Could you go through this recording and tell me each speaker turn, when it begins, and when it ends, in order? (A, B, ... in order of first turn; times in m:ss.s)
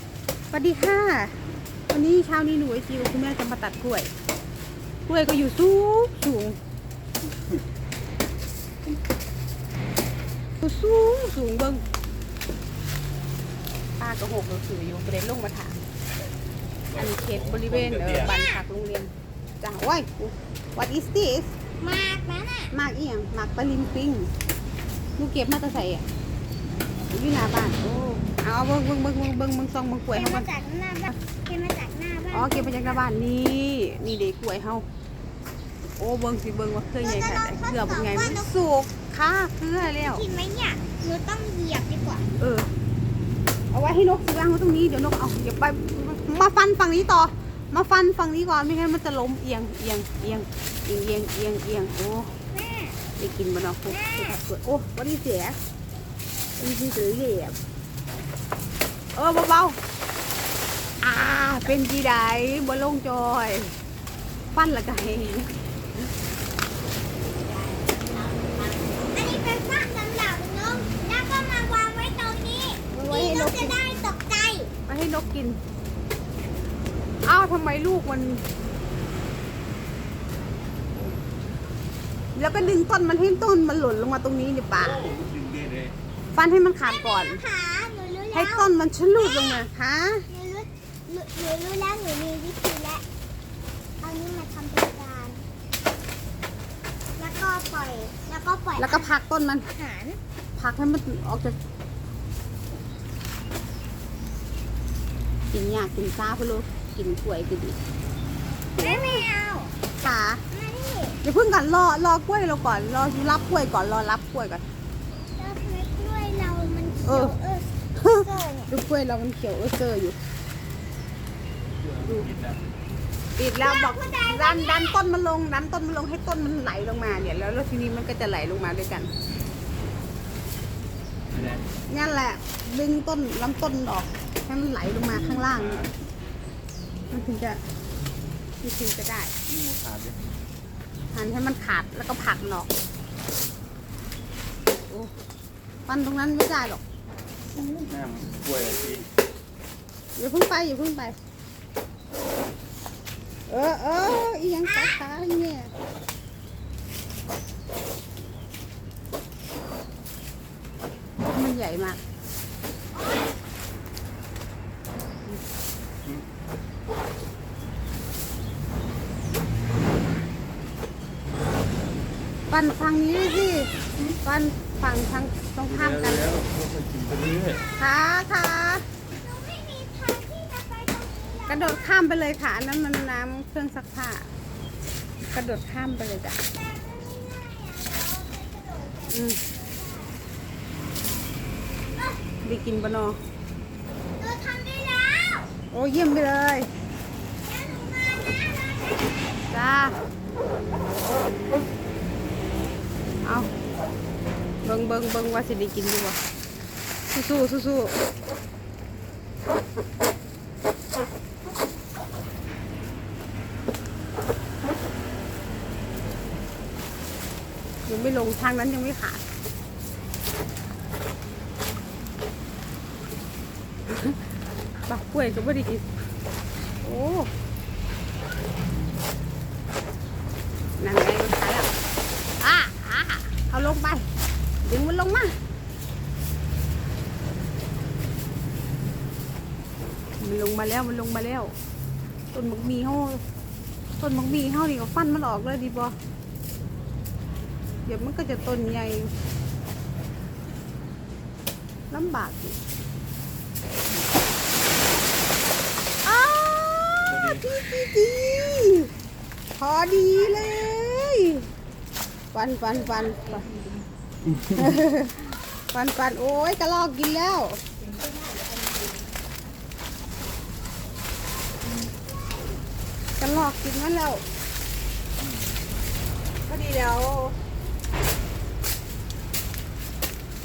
0:00.5-0:01.4 A
0:01.9-0:04.1 A
0:05.1-0:06.6 A
0:10.6-0:11.8 A
0:14.0-0:15.8 A
0:16.9-0:21.5 A
0:17.4-0:18.2 B
0:18.2-0:18.6 C
0:21.8-0:22.7 C
0:22.7-0:24.3 A
0:25.2-0:26.0 A
0:27.1-0:30.5 A
0:30.1-0:33.0 C
0:32.3-0:34.8 A
0:36.0-0:40.2 A
0:37.0-0:38.5 C
0:39.8-0:42.2 C
0:42.4-0:42.7 A
0:43.7-0:52.3 A
0:52.5-0:53.0 C
0:53.2-0:55.6 A
0:53.9-0:54.4 C
0:56.6-0:57.6 A
0:59.2-0:59.8 A
1:01.0-1:03.8 A
1:04.5-1:05.6 A
1:07.4-1:14.7 C
1:12.9-1:13.8 A
1:14.9-1:15.6 A
1:17.2-1:18.4 A
1:22.4-1:25.1 A
1:25.0-1:25.9 B
1:26.3-1:27.4 A
1:26.8-1:29.7 C
1:28.3-1:30.3 A
1:30.3-1:33.0 C
1:34.0-1:35.4 C
1:37.2-1:39.1 C
1:38.8-1:39.7 A
1:39.7-1:40.2 C
1:40.6-1:41.6 A
1:45.5-1:47.8 A
1:48.8-1:49.7 C
1:48.8-1:49.2 A
1:50.0-1:50.4 A
1:50.5-1:51.2 C
1:51.2-1:54.6 A
1:55.4-1:58.7 C
1:57.1-1:57.4 A
1:58.0-2:00.2 A
2:02.0-2:02.6 B
2:02.0-2:02.3 A
2:03.4-2:09.1 A
2:03.6-2:05.0 C
2:11.9-2:15.8 A
2:15.1-2:15.9 B
2:17.1-2:17.6 A
2:18.6-2:19.4 A
2:19.5-2:20.2 B
2:21.1-2:22.7 A
2:25.9-2:26.8 A
2:27.6-2:29.1 B
2:30.2-2:31.2 A
2:33.5-2:35.7 A
2:34.7-2:35.0 C
2:41.3-2:42.0 A
2:43.0-2:43.2 C
2:52.5-2:56.3 A
2:55.8-2:57.6 B
2:57.8-2:58.8 A
2:59.2-3:01.8 C
3:01.5-3:04.3 A
3:05.3-3:06.4 A
3:06.5-3:10.2 C
3:09.1-3:09.4 A
3:12.4-3:13.2 A
3:14.2-3:15.5 C
3:15.7-3:16.7 A
3:17.4-3:19.2 C
3:19.5-3:20.0 A
3:23.2-3:23.5 A
3:24.6-3:26.2 A
3:27.1-3:28.0 A
3:37.9-3:39.2 A
3:43.9-3:44.2 A
3:44.9-3:45.9 A
3:46.8-3:47.3 A
3:50.8-3:51.7 A
3:52.4-3:54.1 A
3:54.6-3:55.4 A
4:00.2-4:01.5 A
4:02.3-4:03.2 A
4:04.0-4:06.0 A
4:07.9-4:09.1 A
4:11.9-4:12.6 A
4:16.0-4:18.9 A
4:17.1-4:17.4 B
4:19.6-4:21.5 A
4:22.3-4:23.5 A
4:24.4-4:27.6 A
4:33.2-4:34.2 A
4:36.5-4:37.4 A